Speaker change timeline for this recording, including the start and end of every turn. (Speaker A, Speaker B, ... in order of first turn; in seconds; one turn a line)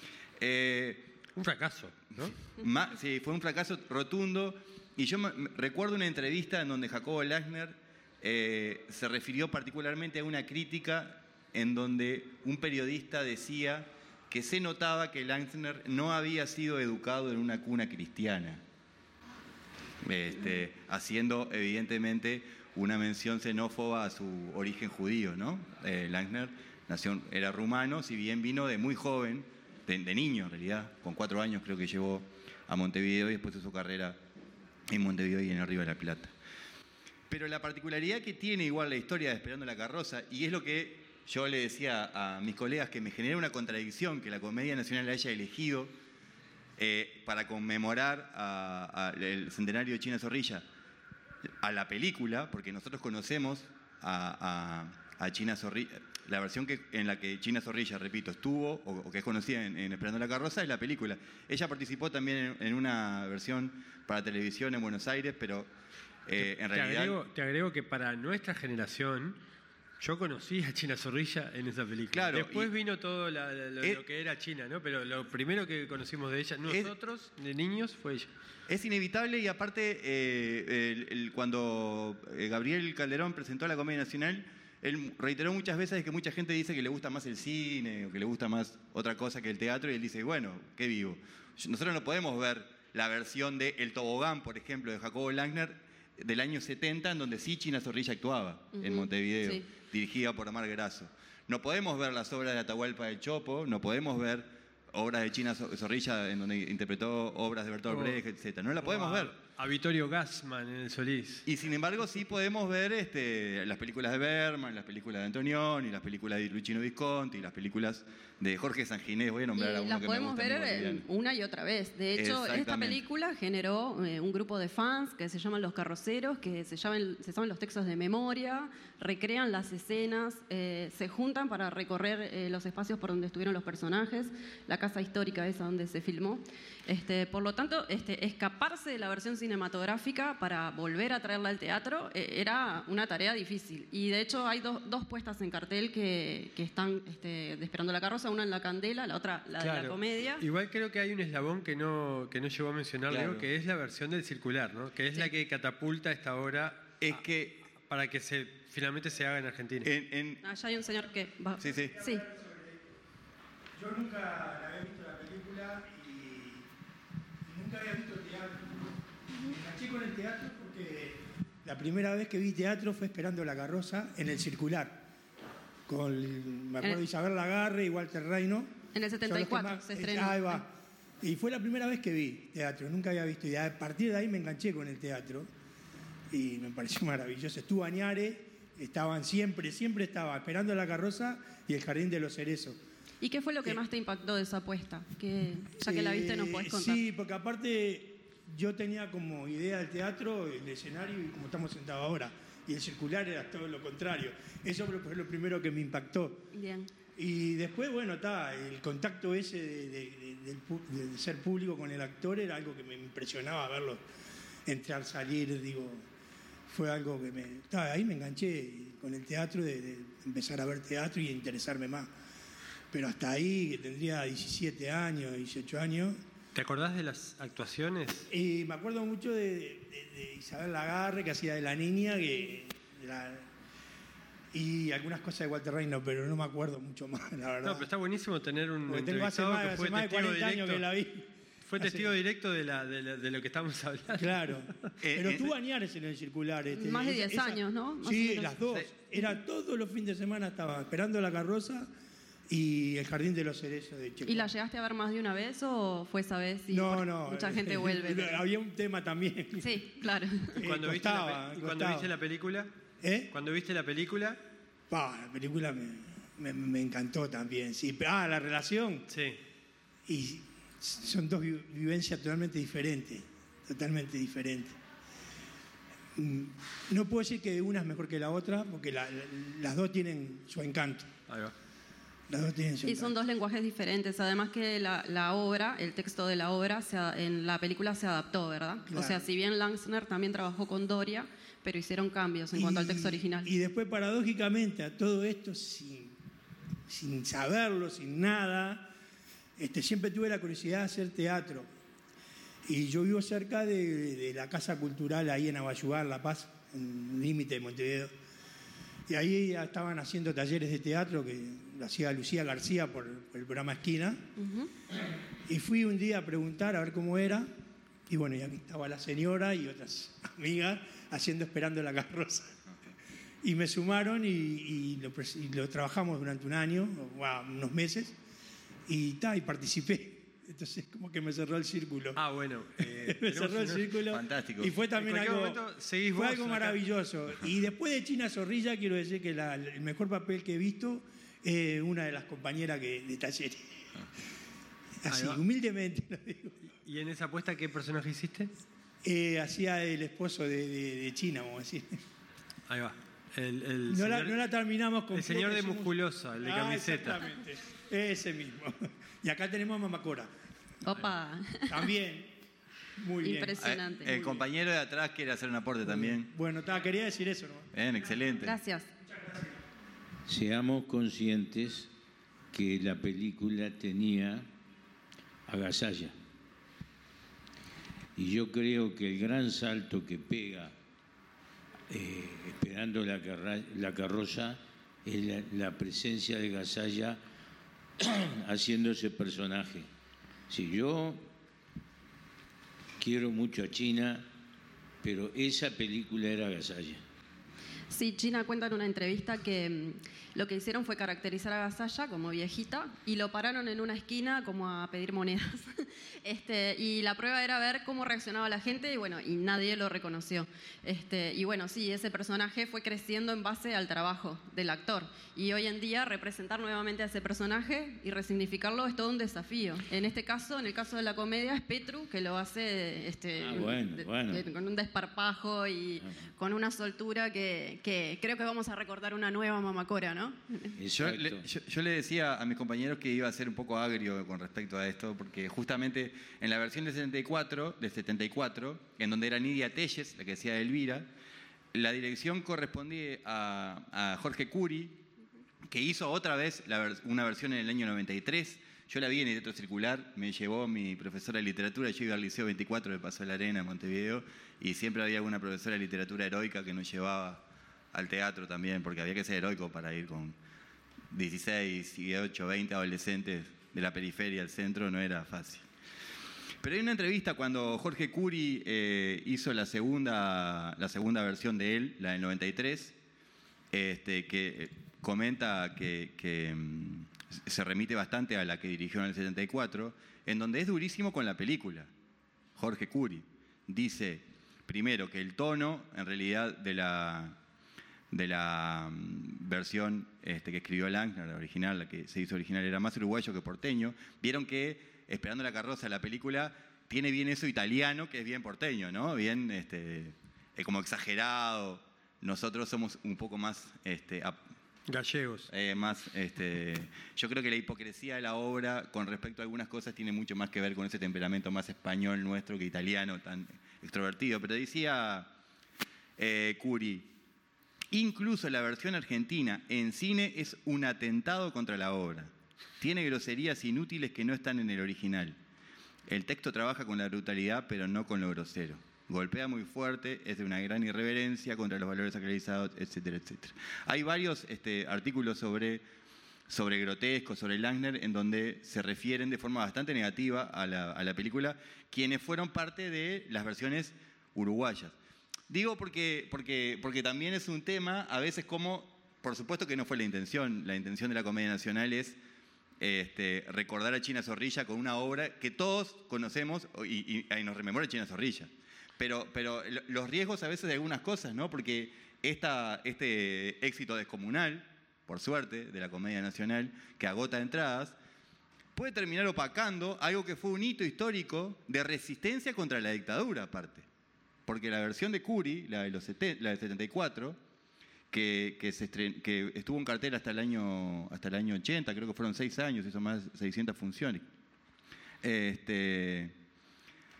Speaker A: 0.4-1.1
Speaker B: 1.4-2.4
Speaker A: 2.5-18.6
Speaker A: 20.0-34.2
Speaker A: 34.9-36.3
Speaker A: 37.3-45.9
Speaker A: 46.8-50.6
Speaker A: 51.6-65.7
Speaker A: 66.2-67.2
Speaker B: 66.4-69.4
Speaker B: 70.0-78.3
Speaker A: 72.1-72.7
Speaker A: 76.7-76.9
Speaker A: 78.7-109.3
Speaker C: 98.7-99.7
Speaker B: 107.9-108.2
Speaker B: 108.8-111.4
Speaker A: 111.5-121.0
Speaker C: 119.5-150.4
Speaker A: 122.1-123.0
Speaker B: 149.6-157.2
Speaker A: 153.1-153.5
Speaker A: 157.0-157.6
Speaker B: 157.7-159.9
Speaker A: 159.8-160.4
Speaker C: 160.4-162.2
Speaker A: 161.6-162.0
Speaker D: 162.0-162.8
Speaker D: 163.8-166.7
Speaker D: 167.4-175.1
Speaker D: 175.9-185.5
Speaker C: 178.9-180.6
Speaker D: 186.3-192.8
Speaker C: 193.2-197.0
Speaker D: 195.8-206.5
Speaker C: 206.5-206.9
Speaker D: 207.2-214.0
Speaker D: 214.7-216.0
Speaker D: 216.7-222.1
Speaker D: 222.9-226.2
Speaker B: 226.5-228.3
Speaker D: 228.3-233.5
Speaker D: 234.5-237.9
Speaker B: 237.6-240.8
Speaker D: 238.9-242.2
Speaker B: 241.6-244.5
Speaker D: 244.1-251.9
Speaker A: 245.0-245.5
Speaker C: 246.7-248.5
Speaker D: 252.5-254.5
Speaker C: 254.2-258.4
Speaker D: 256.7-259.7
Speaker C: 259.6-260.6
Speaker D: 260.5-262.1
Speaker B: 260.6-262.7
Speaker D: 263.0-263.3
Speaker B: 263.3-264.4
Speaker D: 264.9-269.1
Speaker B: 269.1-269.4
Speaker D: 270.1-274.8
Speaker D: 276.1-281.1
Speaker B: 281.3-281.5
Speaker D: 282.3-283.1
Speaker C: 282.8-293.5
Speaker D: 288.9-289.2
Speaker D: 292.5-296.1
Speaker D: 296.9-298.9
Speaker D: 299.6-301.7
Speaker D: 302.6-308.1
Speaker D: 309.1-314.3
Speaker C: 314.4-314.7
Speaker D: 315.5-317.5
Speaker D: 318.1-322.6
Speaker D: 323.4-328.2
Speaker D: 328.9-332.2
Speaker B: 332.1-333.9
Speaker D: 332.8-343.9
Speaker A: 334.1-334.8
Speaker B: 335.0-336.8
Speaker D: 345.0-346.6
Speaker B: 345.1-345.4
Speaker B: 346.8-348.5
Speaker D: 349.0-352.0
Speaker B: 352.7-354.3
Speaker D: 353.9-360.3
Speaker B: 355.1-357.2
Speaker C: 360.8-361.9
Speaker D: 361.7-362.3
Speaker D: 363.0-364.4
Speaker C: 363.2-364.1
Speaker A: 363.6-366.3
Speaker D: 365.8-367.7
Speaker A: 367.7-368.6
Speaker C: 368.4-368.9
Speaker E: 370.3-371.9
Speaker E: 372.5-374.5
Speaker E: 375.5-376.1
Speaker E: 378.1-380.7
Speaker E: 381.9-387.2
Speaker E: 388.0-389.9
Speaker E: 390.5-391.3
Speaker E: 393.0-394.2
Speaker E: 395.0-397.0
Speaker C: 397.9-430.7
Speaker E: 423.4-424.4
Speaker E: 430.8-431.5
Speaker A: 430.9-441.1
Speaker A: 441.7-445.0
Speaker A: 445.7-460.4
Speaker A: 461.1-465.6
Speaker A: 466.6-472.9
Speaker A: 473.7-481.9
Speaker A: 482.6-487.4
Speaker A: 488.1-504.4
Speaker B: 504.9-505.5
Speaker A: 505.5-515.3
Speaker A: 516.2-517.1
Speaker A: 517.9-525.4
Speaker A: 526.1-535.8
Speaker A: 536.5-544.9
Speaker A: 545.5-552.2
Speaker A: 552.8-567.9
Speaker A: 568.8-573.9
Speaker A: 574.5-577.4
Speaker A: 578.1-584.2
Speaker A: 585.2-586.3